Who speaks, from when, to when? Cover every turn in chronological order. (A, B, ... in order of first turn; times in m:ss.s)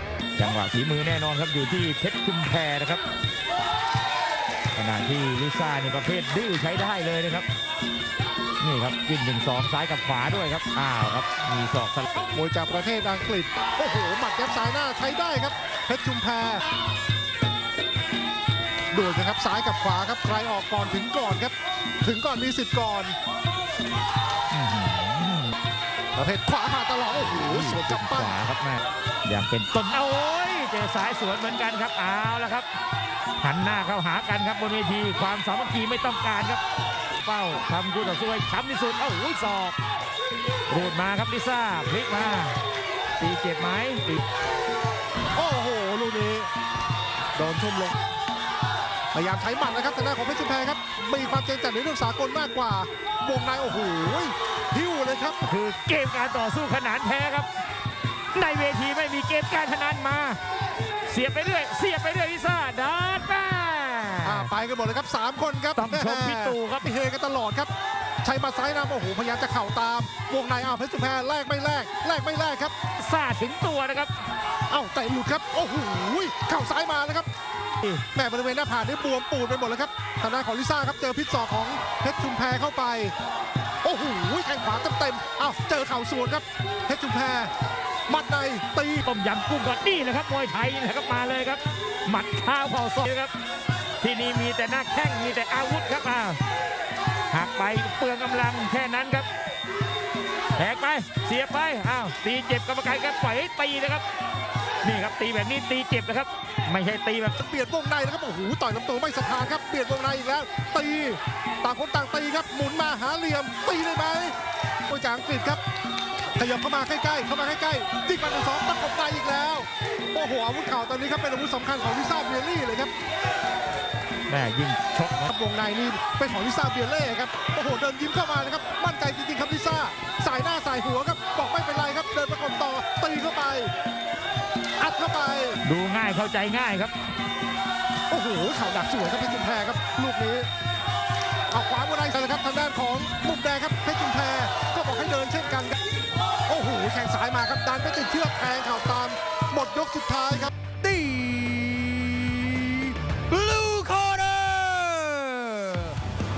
0:00.4-0:03.0 A
0:04.7-0:07.4 A
0:08.6-0:12.1 A
0:12.3-0:16.6 B
0:18.9-0:23.2 B
0:24.5-0:25.5 A
0:26.1-0:28.4 B
0:27.1-0:32.6 A
0:33.4-0:36.6 A
0:37.2-0:39.8 A
0:40.7-0:42.6 A
0:43.2-0:44.2 A
0:45.4-0:46.5 B
0:47.4-0:48.0 B
0:49.1-0:55.4 B
0:55.5-0:57.5 A
0:58.3-1:00.4 A
1:01.0-1:04.5 A
1:04.2-1:07.7 B
1:05.8-1:06.9 A
1:08.2-1:12.7 B
1:13.0-1:14.1 A
1:14.7-1:17.3 B
1:18.1-1:23.1 B
1:23.8-1:27.5 B
1:28.1-1:29.0 B
1:29.0-1:33.3 A
1:34.0-1:36.4 A
1:37.3-1:39.3 A
1:40.6-1:44.0 A
1:44.8-1:47.4 A
1:47.4-1:54.3 B
1:54.9-1:55.6 B
1:56.4-2:02.9 B
2:04.3-2:05.3 A
2:05.3-2:13.7 B
2:14.8-2:15.6 B
2:15.6-2:16.9 A
2:18.1-2:20.5 B
2:21.5-2:25.7 B
2:26.5-2:30.5 B
2:30.8-2:36.0 C